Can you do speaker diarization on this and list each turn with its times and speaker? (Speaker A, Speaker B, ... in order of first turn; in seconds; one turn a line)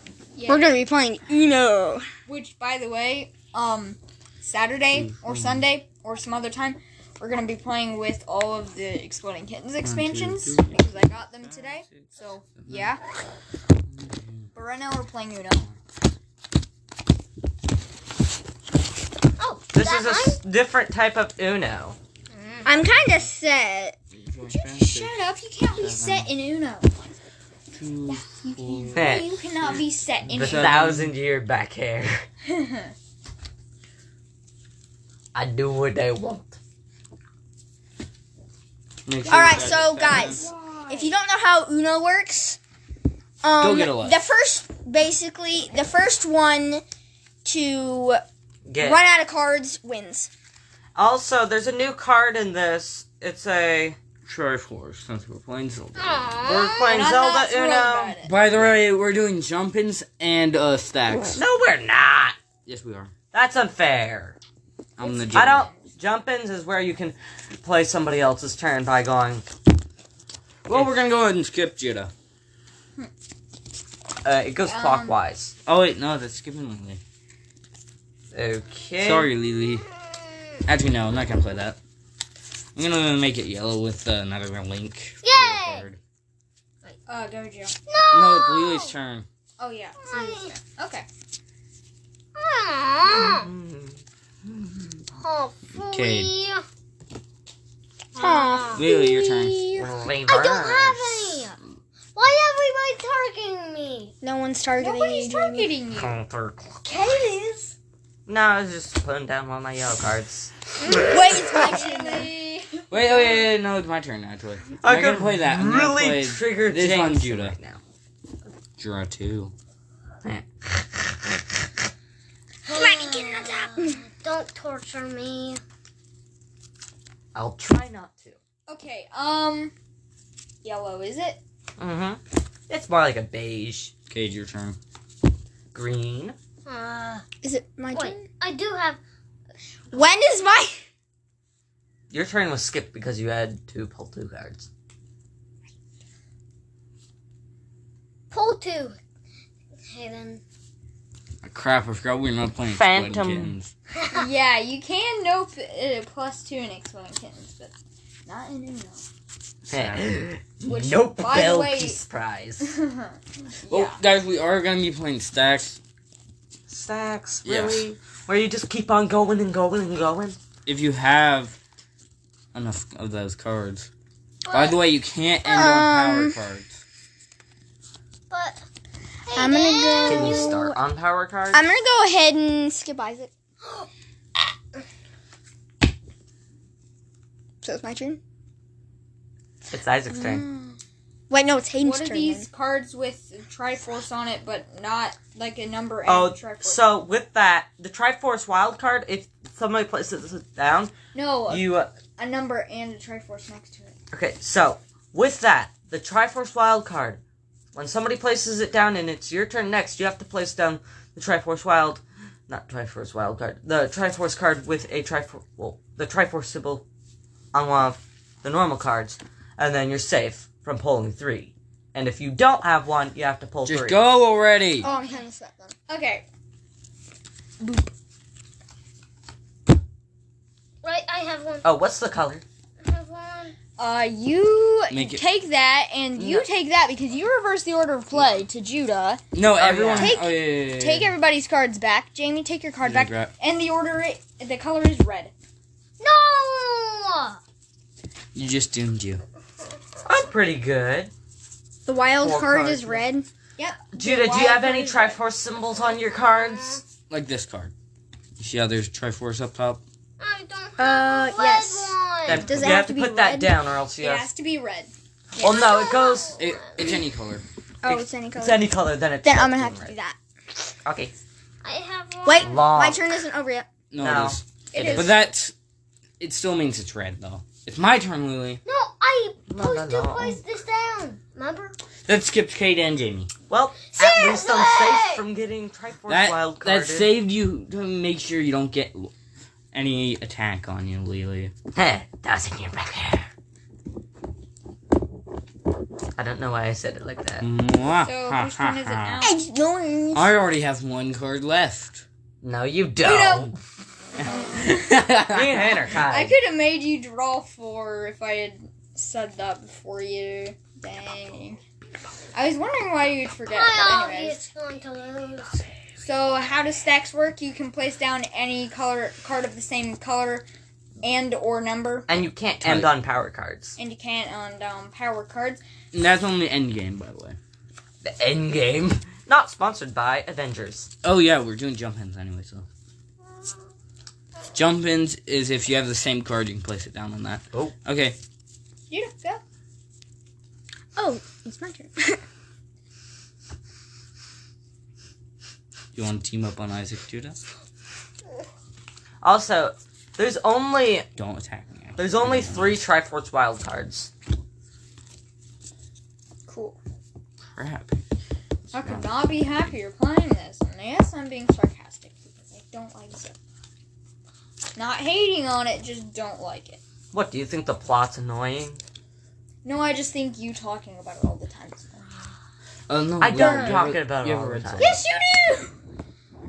Speaker A: 0.3-0.8
Speaker B: 0.5-2.1
Speaker A: 2.3-13.0
Speaker C: 5.0-5.7
Speaker C: 9.8-12.9
Speaker C: 13.9-14.5
Speaker A: 14.5-15.7
Speaker D: 19.4-20.4
Speaker E: 19.7-22.0
Speaker D: 22.3-22.7
Speaker B: 22.6-24.0
Speaker C: 24.1-25.2
Speaker A: 24.4-26.9
Speaker C: 25.7-26.3
Speaker C: 27.7-29.2
Speaker A: 28.1-30.8
Speaker E: 28.9-29.3
Speaker C: 30.3-31.2
Speaker E: 30.4-32.3
Speaker A: 32.5-32.9
Speaker E: 35.3-36.6
Speaker C: 39.1-40.5
Speaker A: 39.2-41.1
Speaker B: 39.3-42.6
Speaker B: 43.4-46.8
Speaker C: 43.6-44.2
Speaker B: 47.5-48.2
Speaker E: 48.6-49.0
Speaker B: 48.8-50.3
Speaker E: 51.0-54.0
Speaker C: 54.2-56.3
Speaker D: 56.0-56.8
Speaker E: 56.4-58.8
Speaker A: 56.8-58.4
Speaker C: 58.2-61.4
Speaker E: 61.3-62.4
Speaker C: 62.6-63.1
Speaker E: 63.3-64.4
Speaker C: 65.0-65.6
Speaker A: 65.0-65.8
Speaker E: 65.3-69.5
Speaker C: 70.7-72.1
Speaker E: 70.7-71.0
Speaker E: 74.2-75.5
Speaker A: 74.7-75.2
Speaker C: 75.7-77.0
Speaker E: 78.3-79.3
Speaker C: 79.0-79.9
Speaker C: 80.7-81.8
Speaker C: 82.8-86.0
Speaker D: 85.2-85.9
Speaker A: 87.1-87.8
Speaker D: 87.9-88.9
Speaker C: 88.1-89.3
Speaker A: 89.6-91.1
Speaker D: 90.0-90.6
Speaker D: 92.4-93.5
Speaker E: 93.0-94.9
Speaker D: 95.2-96.6
Speaker C: 95.9-96.3
Speaker D: 98.2-98.9
Speaker B: 98.2-99.5
Speaker C: 98.8-99.8
Speaker E: 99.8-101.4
Speaker D: 100.2-101.6
Speaker D: 102.2-104.1
Speaker B: 104.2-105.7
Speaker A: 104.8-106.2
Speaker E: 105.9-106.8
Speaker A: 106.9-107.7
Speaker E: 108.3-111.2
Speaker A: 110.9-113.4
Speaker B: 110.9-112.0
Speaker C: 112.9-117.6
Speaker E: 114.8-117.8
Speaker C: 118.8-119.5
Speaker D: 122.7-125.6
Speaker B: 123.0-123.7
Speaker E: 127.3-128.4
Speaker A: 128.7-129.7
Speaker A: 130.6-131.4
Speaker E: 131.8-133.9
Speaker C: 134.1-134.8
Speaker E: 135.7-136.3
Speaker D: 136.7-137.2
Speaker B: 137.4-138.2
Speaker D: 137.9-139.0
Speaker B: 139.9-140.8
Speaker E: 142.1-144.7
Speaker D: 148.3-149.0
Speaker D: 149.9-150.4
Speaker C: 151.4-153.7
Speaker E: 152.7-153.6
Speaker A: 154.1-157.7
Speaker A: 158.3-159.1
Speaker C: 159.7-160.1
Speaker E: 159.7-162.8
Speaker A: 160.7-162.0
Speaker A: 162.6-164.0
Speaker C: 163.7-165.8
Speaker E: 166.7-170.4
Speaker C: 167.4-167.8
Speaker C: 170.7-171.6
Speaker C: 172.5-173.9
Speaker D: 174.4-174.8
Speaker C: 174.5-176.8
Speaker B: 175.5-176.4
Speaker D: 178.3-178.6
Speaker D: 179.3-180.7
Speaker B: 179.4-180.8
Speaker E: 180.1-181.6
Speaker B: 181.5-183.3
Speaker D: 183.6-183.9
Speaker B: 187.6-188.2
Speaker E: 189.7-190.5
Speaker B: 191.3-192.5
Speaker A: 191.8-196.8
Speaker E: 196.1-200.9
Speaker A: 201.1-203.9
Speaker E: 201.5-201.9
Speaker E: 204.1-207.2
Speaker E: 207.8-216.8
Speaker E: 217.5-224.1
Speaker C: 223.7-224.9
Speaker B: 224.8-225.8
Speaker A: 224.8-225.2
Speaker A: 225.9-226.2
Speaker A: 227.6-227.9
Speaker D: 230.8-231.7
Speaker E: 231.6-232.4
Speaker D: 232.8-233.6
Speaker A: 233.8-239.2
Speaker C: 234.9-235.2
Speaker E: 236.2-236.5
Speaker C: 239.3-241.2
Speaker E: 239.5-240.2
Speaker A: 239.9-245.3
Speaker C: 242.8-243.3
Speaker D: 246.0-247.4
Speaker C: 248.3-249.2
Speaker E: 250.1-251.1
Speaker B: 251.9-253.3
Speaker E: 252.2-253.0
Speaker A: 253.6-255.2
Speaker E: 253.9-256.8
Speaker C: 257.1-257.7
Speaker C: 258.4-259.8
Speaker D: 260.2-262.7
Speaker B: 260.8-263.5
Speaker E: 262.2-264.3
Speaker A: 264.0-264.9
Speaker E: 265.4-266.4
Speaker D: 265.4-267.0
Speaker C: 266.4-267.4
Speaker B: 267.8-268.7
Speaker E: 267.9-269.9
Speaker B: 269.2-270.2
Speaker E: 270.8-271.1
Speaker D: 271.6-272.6
Speaker B: 272.2-273.7
Speaker E: 272.4-273.0
Speaker C: 273.9-275.5
Speaker E: 274.0-275.2
Speaker A: 274.8-275.1
Speaker C: 276.2-278.6
Speaker D: 278.6-281.8
Speaker E: 279.5-280.4
Speaker C: 282.1-283.3
Speaker E: 283.5-287.1
Speaker D: 284.0-285.2
Speaker C: 286.1-289.1
Speaker C: 289.7-291.5
Speaker E: 291.7-293.3
Speaker E: 296.2-297.5
Speaker C: 297.4-299.2
Speaker A: 298.0-299.4
Speaker B: 299.2-300.3
Speaker C: 300.1-302.1
Speaker E: 302.4-303.6
Speaker A: 303.0-303.5
Speaker C: 304.2-305.7
Speaker E: 305.3-306.4
Speaker A: 306.0-311.6
Speaker A: 312.3-314.4
Speaker D: 313.5-315.7
Speaker A: 316.0-320.5
Speaker A: 321.0-322.1
Speaker E: 322.1-323.8
Speaker C: 322.6-322.9
Speaker A: 323.8-325.6
Speaker C: 325.9-327.4
Speaker E: 328.0-330.9
Speaker C: 331.0-332.7
Speaker C: 334.5-338.2
Speaker A: 338.9-339.4
Speaker B: 341.0-342.2
Speaker C: 345.9-347.4
Speaker E: 349.2-351.1
Speaker C: 351.2-352.8
Speaker E: 352.0-354.1
Speaker A: 356.5-356.8
Speaker C: 357.6-358.0
Speaker C: 358.7-359.7
Speaker A: 358.7-363.4
Speaker A: 364.8-366.8
Speaker E: 367.1-368.8
Speaker A: 369.6-372.4
Speaker C: 372.9-375.0
Speaker E: 373.2-375.0
Speaker A: 373.4-373.8
Speaker A: 374.8-375.7